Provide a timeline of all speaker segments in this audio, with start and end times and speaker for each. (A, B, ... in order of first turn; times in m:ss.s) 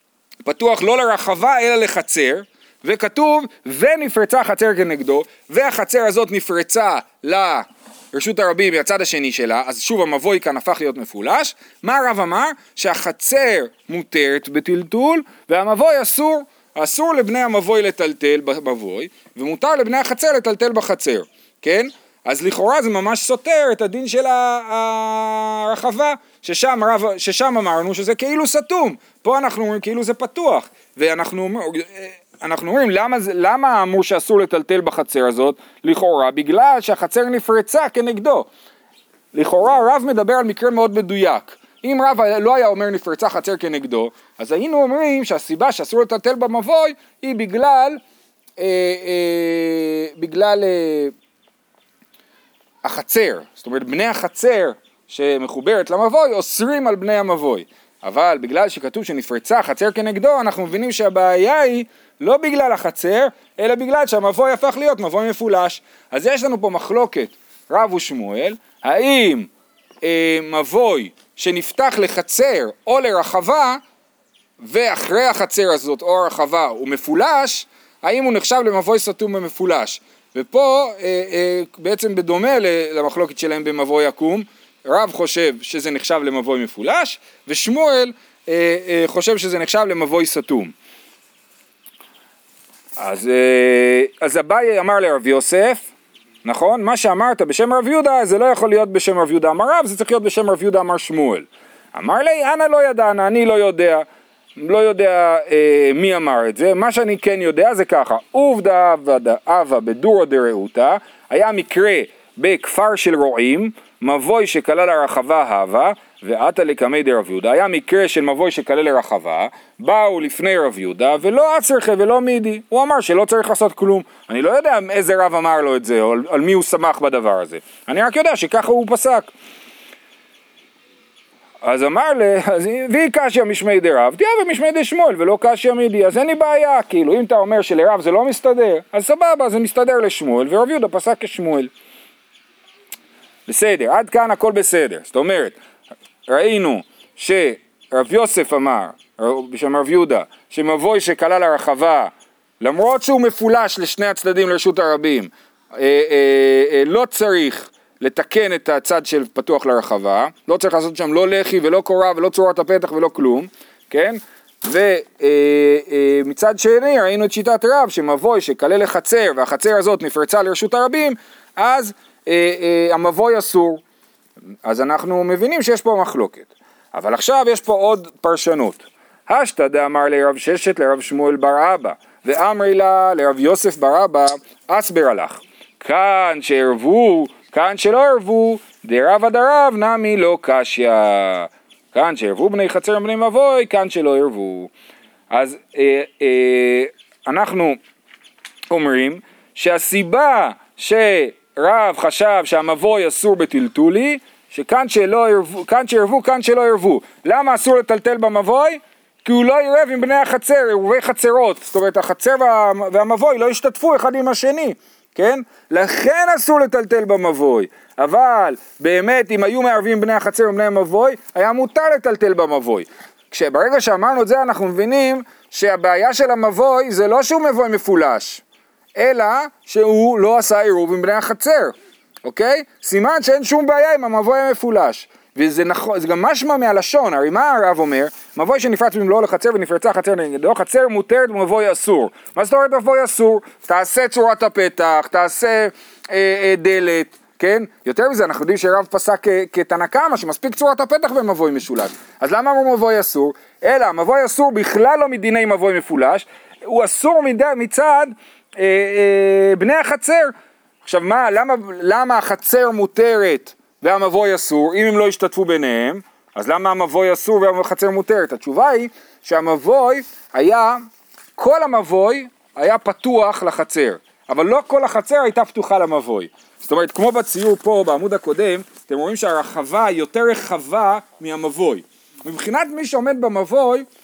0:00.4-0:38.5 A
0:39.3-0:48.0 A
0:48.6-0:51.1 A
0:52.8-1:09.5 A
1:10.0-1:13.8 A
1:14.6-1:30.7 A
1:33.0-1:35.9 A
1:36.4-1:44.1 A
1:44.6-2:09.3 A
2:11.6-2:21.7 A
2:23.5-2:25.6 A
2:26.3-2:53.8 A
2:54.6-3:14.7 A
3:15.3-3:17.8 A
3:18.7-3:48.4 A
3:49.0-3:51.7 A
3:52.2-4:30.8 A
4:31.4-4:43.9 A